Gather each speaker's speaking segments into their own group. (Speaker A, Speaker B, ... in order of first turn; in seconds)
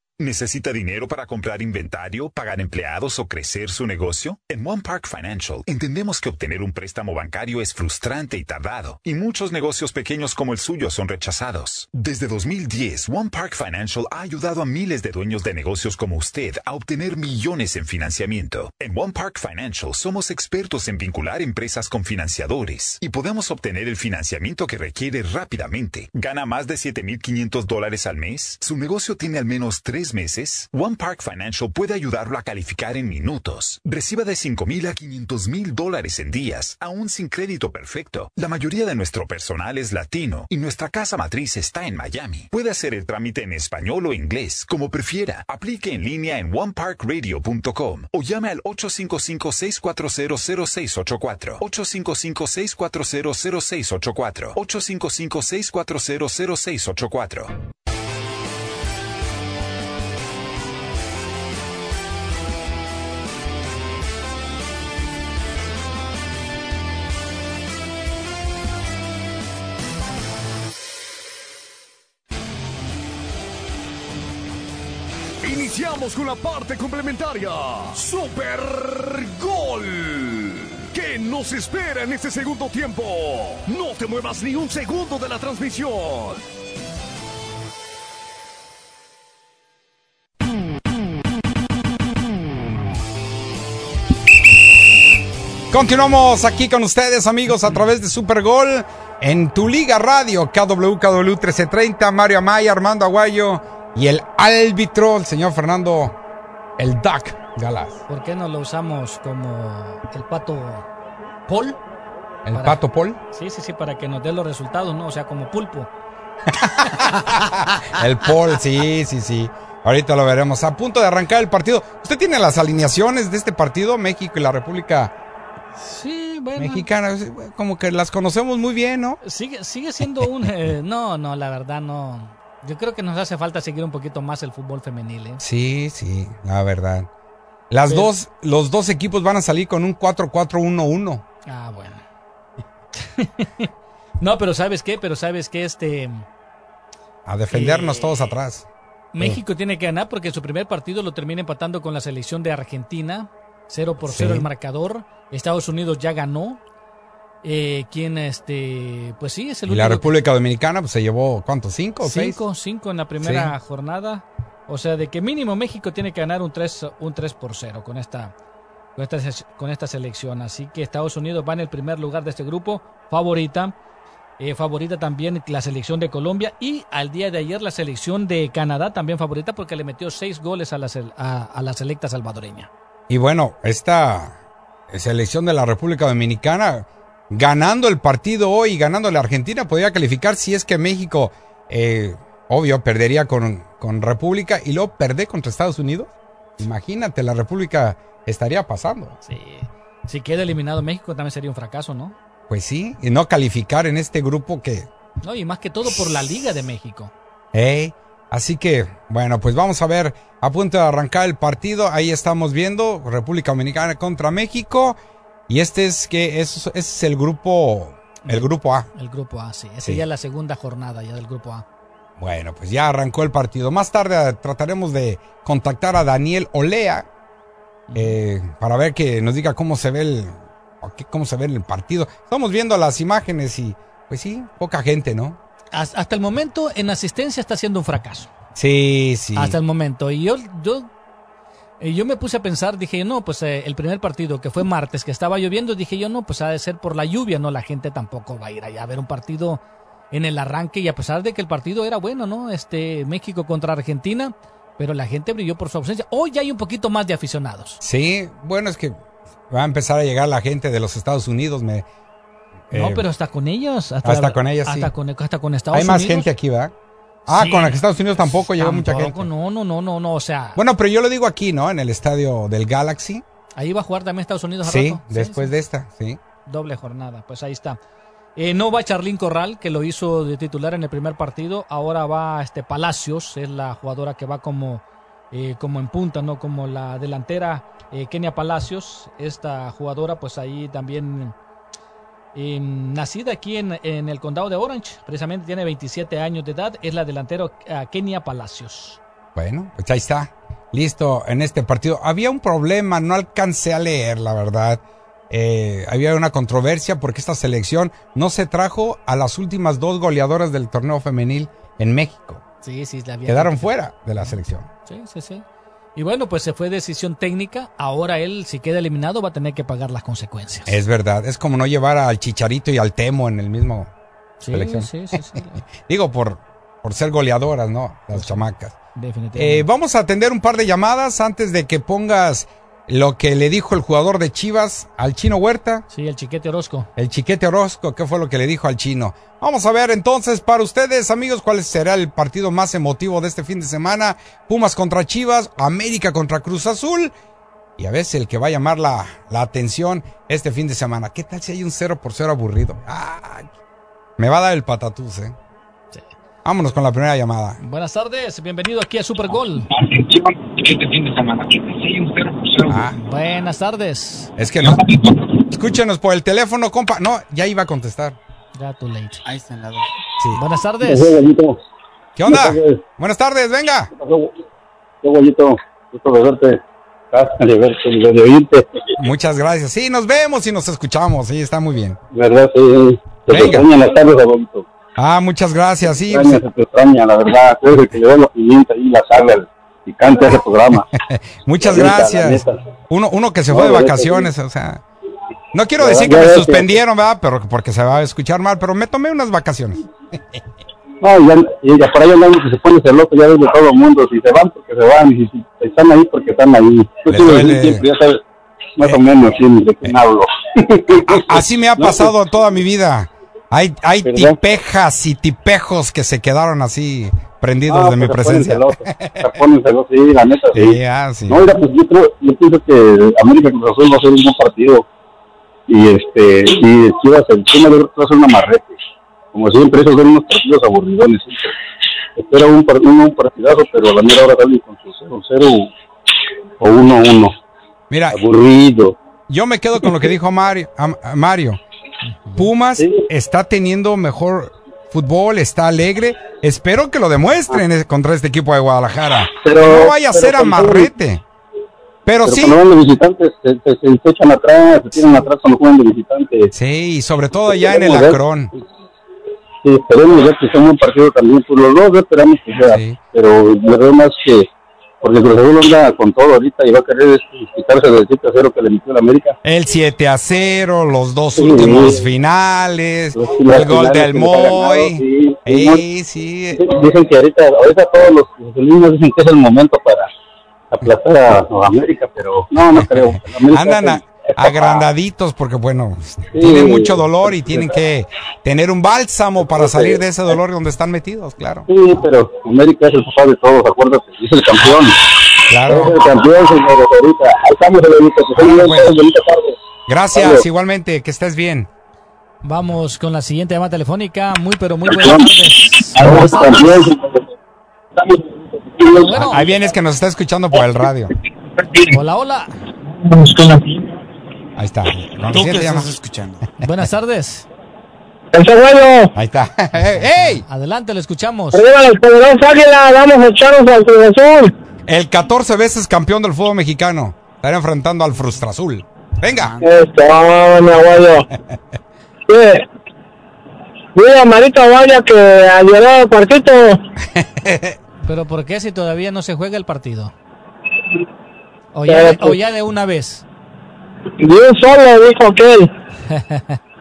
Speaker A: 0.2-57.6
Speaker B: 75.4-86.4
Speaker C: 95.7-106.1, 106.8-108.0, 112.4-113.2, 116.5-125.1, 126.5-129.2, 135.4-137.1, 137.7-141.2, 147.2-148.7, 154.0-154.5, 159.7-162.4, 163.2-163.5, 183.1-184.3, 184.9-199.2, 202.5-204.9, 207.5-215.0, 215.5-218.9, 222.2-227.1, 227.9-235.4, 238.5-239.6, 257.8-259.0, 259.5-261.9, 262.7-263.1, 264.0-264.9, 265.7-266.7, 267.3-269.3, 270.6-273.2, 274.6-276.2, 299.3-312.4, 313.3-314.7, 320.7-323.9, 324.5-328.7, 329.3-335.8, 336.9-347.1, 347.8-353.5, 354.2-355.4, 356.4-357.6, 362.7-362.9, 364.4-364.9, 365.5-368.2, 372.2-373.9, 379.0-382.0, 383.3-383.7, 385.0-386.4, 390.9-394.8, 395.5-400.4, 407.1-407.9, 411.1-419.4, 420.5-421.5, 437.9-438.2, 439.3-441.6, 442.4-451.2, 452.1-452.6, 456.5-458.5, 462.7-463.0, 469.4-476.7, 482.7-491.7, 495.5-496.1, 498.4-499.0, 499.9-501.7, 509.1-511.1, 514.6-515.9, 519.1-520.4, 524.9-529.6, 537.1-537.8
Speaker D: 108.1-110.8, 111.5-111.8, 112.5-115.9, 125.8-126.9, 129.2-135.4, 141.4-142.0, 142.9-143.7, 144.2-146.3, 147.5-148.3, 149.1-156.6, 157.4-160.1, 162.0-168.3, 168.9-173.8, 174.4-182.7, 199.2-202.2, 205.2-207.1, 218.9-221.6, 227.9-228.2, 235.7-238.3, 239.3-240.9, 241.8-257.8, 262.7-266.3, 267.3-270.6, 273.6-275.5, 276.4-277.8, 278.4-291.3, 292.3-299.0, 312.6-315.4, 315.9-320.8, 324.4-325.6, 328.1-328.4, 328.9-329.6, 335.9-336.9, 357.6-359.7, 362.9-364.3, 368.5-369.2, 370.3-371.2, 442.0-442.4, 502.4-506.6, 508.9-509.4, 511.9-512.5, 516.6-517.5, 519.7-521.6, 538.0-540.1, 541.7-543.2, 546.1-546.6
Speaker E: 361.4-362.6, 369.2-369.9, 515.3-516.5
Speaker F: 370.8-371.6, 372.3-372.8, 374.0-374.3, 375.0-376.6, 377.1-378.9, 382.1-384.6, 386.1-390.9, 391.6-392.6, 393.5-394.3, 395.8-396.8, 401.0-408.2, 408.8-412.1, 414.0-414.4, 417.7-424.9, 425.7-428.8, 429.3-431.5, 432.1-435.7, 436.6-437.3, 438.1-438.9, 442.8-443.0, 449.4-450.9, 452.2-456.5, 457.5-458.6, 459.6-464.5, 465.0-469.3, 471.4-472.0, 473.1-475.8, 476.5-480.1, 480.7-484.8, 486.3-487.7, 489.5-490.0, 491.7-495.0, 495.6-499.6, 500.1-500.4, 504.9-505.2, 505.9-507.0, 508.0-509.3
Speaker G: 513.0-513.7, 518.3-519.1, 521.5-524.5, 529.6-531.3, 532.3-532.6, 533.9-536.8, 541.9-542.3, 544.2-545.7